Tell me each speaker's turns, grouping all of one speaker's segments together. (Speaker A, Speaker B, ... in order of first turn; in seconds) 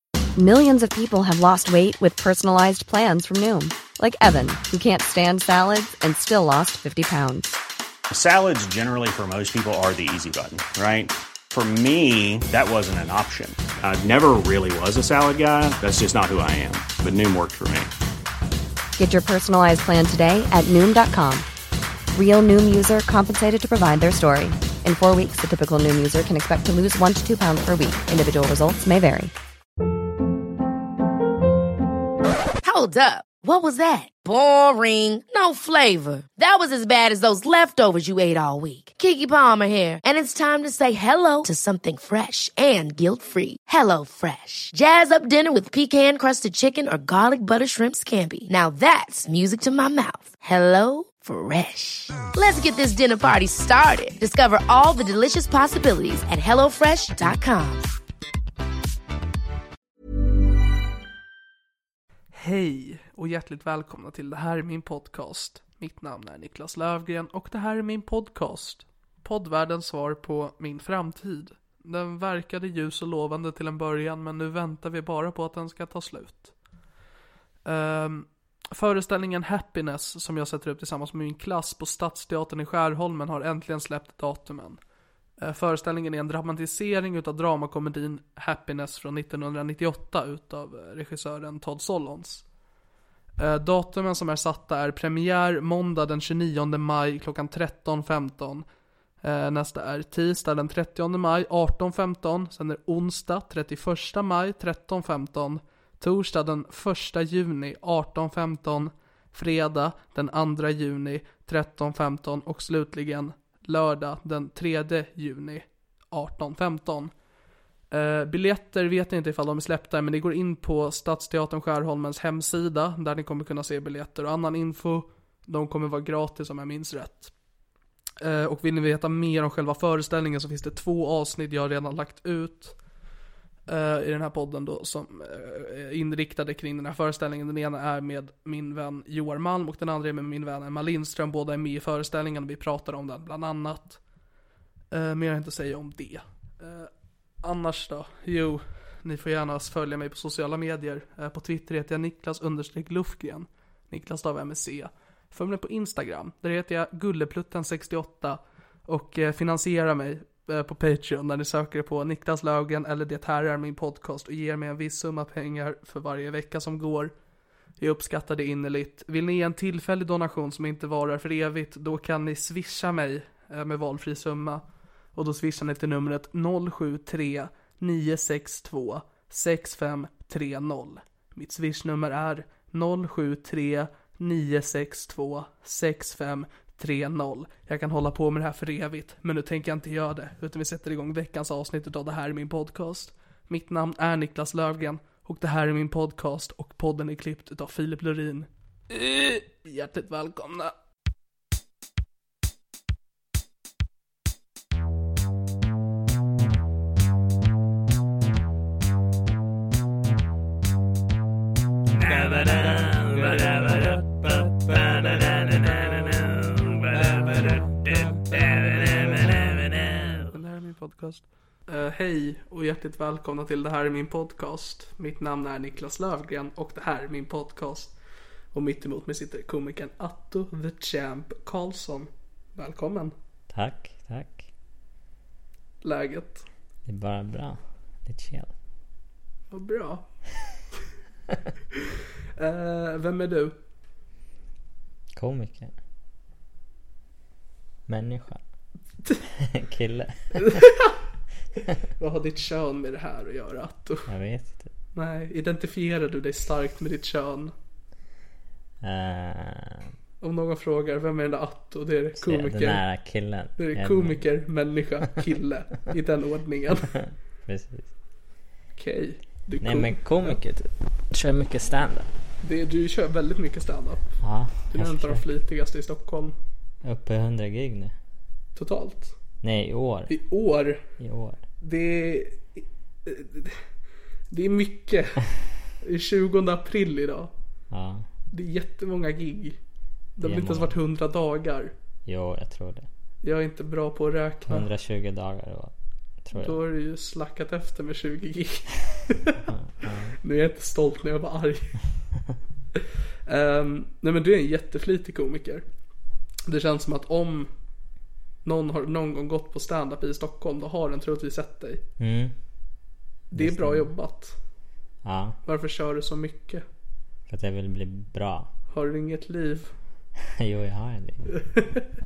Speaker A: 0.4-7.6, 19.0-21.4, 22.1-29.3
Speaker B: 8.1-17.9
Speaker C: 32.6-57.9
Speaker D: 62.3-76.5, 77.7-84.8, 85.4-92.4, 93.4-98.6, 99.2-117.1, 117.9-127.3, 128.2-132.8, 133.7-144.0, 144.9-146.9, 147.4-167.1, 167.8-174.6, 175.1-200.7, 212.0-216.1, 216.8-227.9, 228.5-233.1, 235.8-236.4, 239.5-240.0, 242.4-243.6, 250.4-250.9, 252.0-254.1, 254.9-257.5, 260.2-262.8, 263.6-266.9, 268.8-270.4, 272.4-274.2, 274.7-276.3, 278.6-279.1, 280.1-280.8, 281.6-283.6, 284.3-285.2, 285.8-287.3, 288.3-289.6, 290.2-291.7, 293.2-294.7, 296.3-299.4, 300.2-301.8, 303.3-305.6, 306.5-307.5, 308.4-311.8, 313.3-314.3, 315.4-316.6, 318.7-319.7, 321.4-321.7
Speaker E: 233.5-234.4, 236.8-238.5, 245.2-245.7, 247.9-248.4, 249.3-250.5, 254.1-254.7, 258.8-259.9, 262.2-264.2, 266.9-267.9, 269.6-272.1, 274.2-275.2, 276.8-277.9, 279.4-280.1, 281.0-281.4, 287.7-288.1, 290.2-290.7, 292.1-292.9, 294.4-296.6, 299.5-300.2, 312.0-312.3, 313.3-313.9, 315.0-315.4, 317.3-318.5, 320.4-321.3